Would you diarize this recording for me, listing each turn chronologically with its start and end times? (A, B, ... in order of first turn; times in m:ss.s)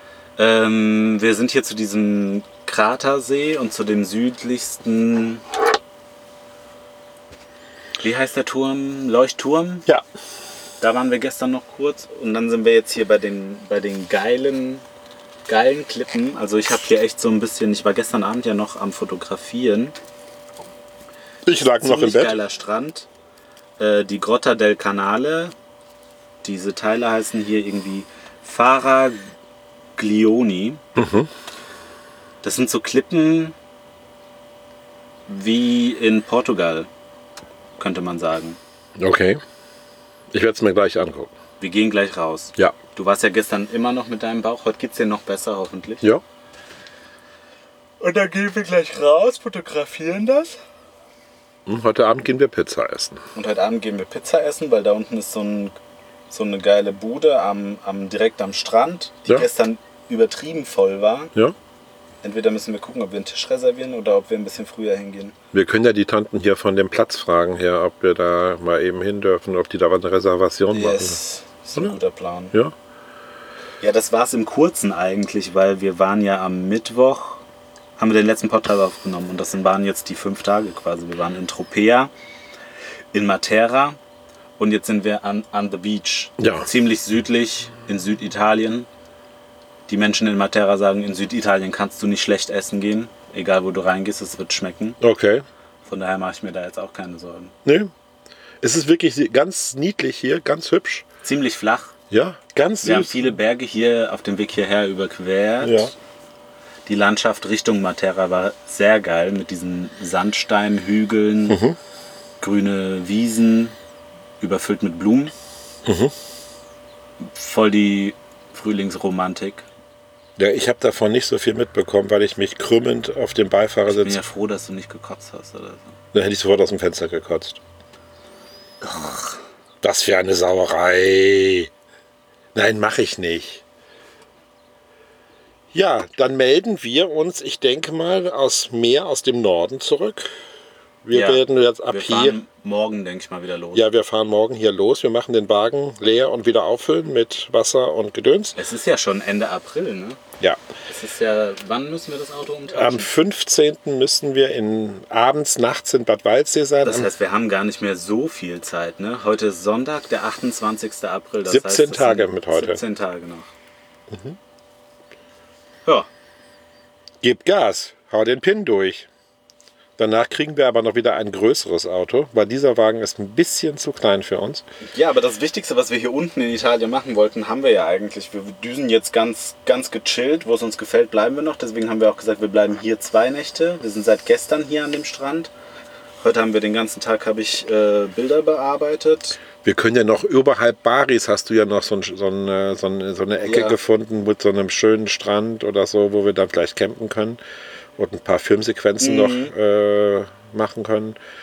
0:00.4-0:05.4 A
0:08.0-0:09.9 A
0:10.8-0:14.8 A
0:15.5-0:20.0 A
0:21.4-0:22.4 B
0:21.8-0:23.1 A
0:23.8-0:25.5 A
0:26.4-0:29.2 A
0:30.0-0:30.8 A
0:31.0-0:31.3 B
0:32.4-0:33.5 A
0:35.3-0:36.9 A
0:37.8-0:38.6 A
0:39.0-0:39.4 B
0:40.3-0:41.3 B
0:41.6-0:46.0 A
0:48.0-0:50.6 A
0:51.6-0:53.2 B
0:53.3-0:55.8 A
0:56.3-1:01.3 A
1:02.2-1:05.3 A
1:05.5-1:11.2 B
1:10.7-1:12.5 A
1:13.8-1:17.4 A
1:18.0-1:22.1 A
1:23.1-1:24.0 A
1:24.6-1:28.9 A
1:26.4-1:26.7 B
1:29.9-1:35.0 A
1:35.0-1:35.4 B
1:35.8-1:37.5 A
1:37.6-1:37.9 B
1:38.6-1:41.0 B
1:41.2-1:41.9 A
1:42.1-1:43.4 B
1:42.8-1:45.9 A
1:45.6-1:45.9 B
1:46.8-1:51.6 A
1:51.5-1:51.8 B
1:52.4-1:53.7 A
1:54.4-1:55.3 A
1:55.8-1:56.1 B
1:57.2-1:59.6 A
2:00.4-2:04.2 B
2:03.9-2:05.9 A
2:06.1-2:07.6 B
2:08.8-2:09.3 A
2:09.8-2:11.7 B
2:12.5-2:13.6 B
2:15.7-2:20.3 B
2:21.0-2:22.4 B
2:21.1-2:23.8 A
2:23.7-2:28.6 B
2:28.6-2:30.2 A
2:30.9-2:33.1 A
2:32.7-2:37.1 B
2:36.8-2:43.5 A
2:41.5-2:42.8 B
2:44.1-2:44.4 B
2:47.2-2:49.1 B
2:50.0-2:54.6 B
2:54.8-3:05.5 A
3:06.2-3:09.4 A
3:09.6-3:17.4 B
3:13.4-3:13.8 A
3:18.0-3:21.2 B
3:19.0-3:19.5 A